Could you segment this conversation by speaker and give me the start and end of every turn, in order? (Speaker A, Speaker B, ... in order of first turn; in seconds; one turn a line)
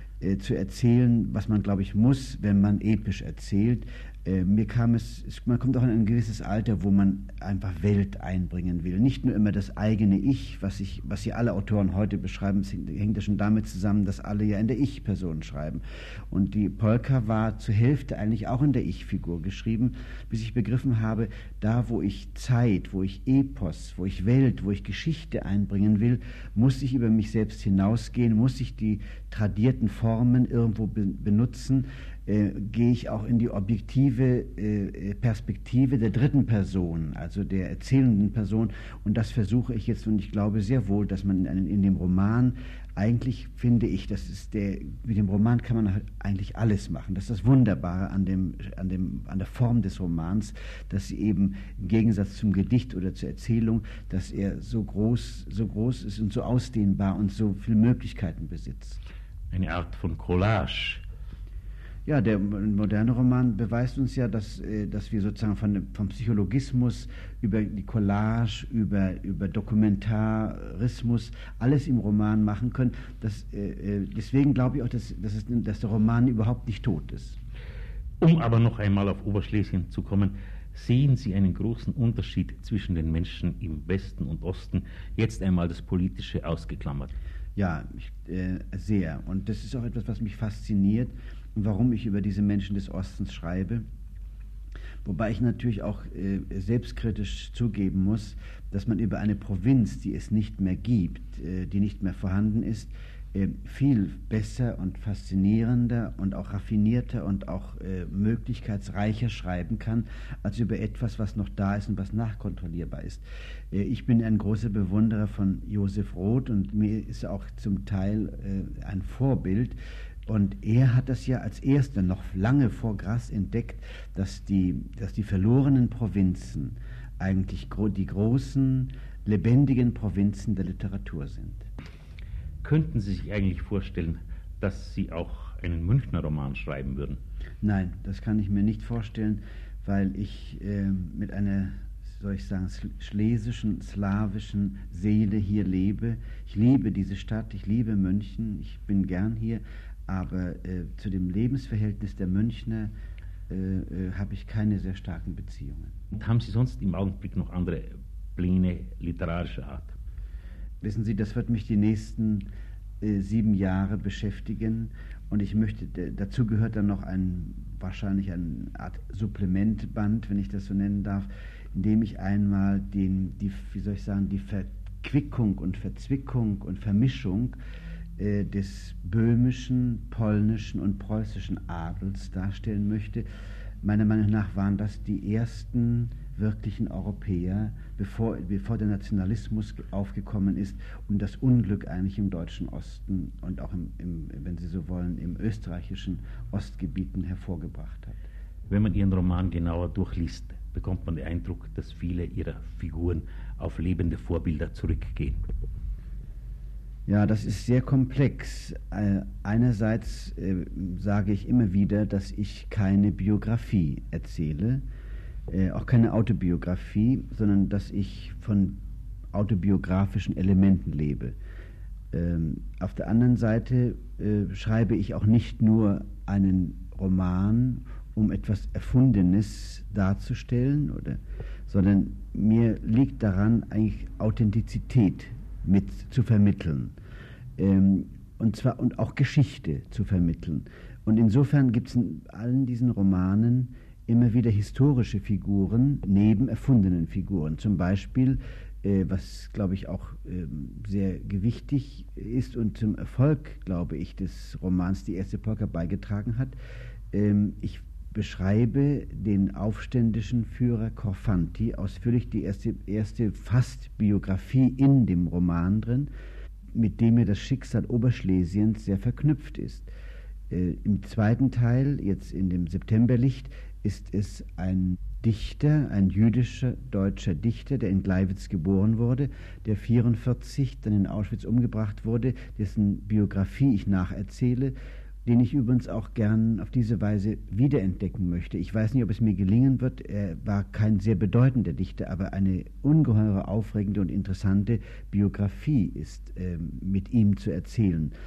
Speaker A: 0.2-59.0
Speaker B: 59.5-61.0
Speaker A: 62.1-77.4
Speaker B: 78.2-87.1
Speaker A: 87.6-93.8
Speaker A: 95.0-131.7
Speaker B: 132.6-137.2
Speaker A: 137.6-152.9
Speaker A: 153.5-156.0
Speaker B: 156.1-160.0
Speaker A: 160.8-162.5
Speaker A: 163.0-177.6
Speaker A: 178.2-183.2
Speaker A: 183.8-198.2
Speaker B: 198.7-205.4
Speaker A: 207.1-214.8
Speaker A: 215.5-218.8
Speaker A: 219.3-221.4
Speaker A: 222.1-237.0
Speaker A: 237.6-256.6
Speaker A: 257.1-266.1
Speaker A: 266.7-269.9
Speaker A: 270.5-298.1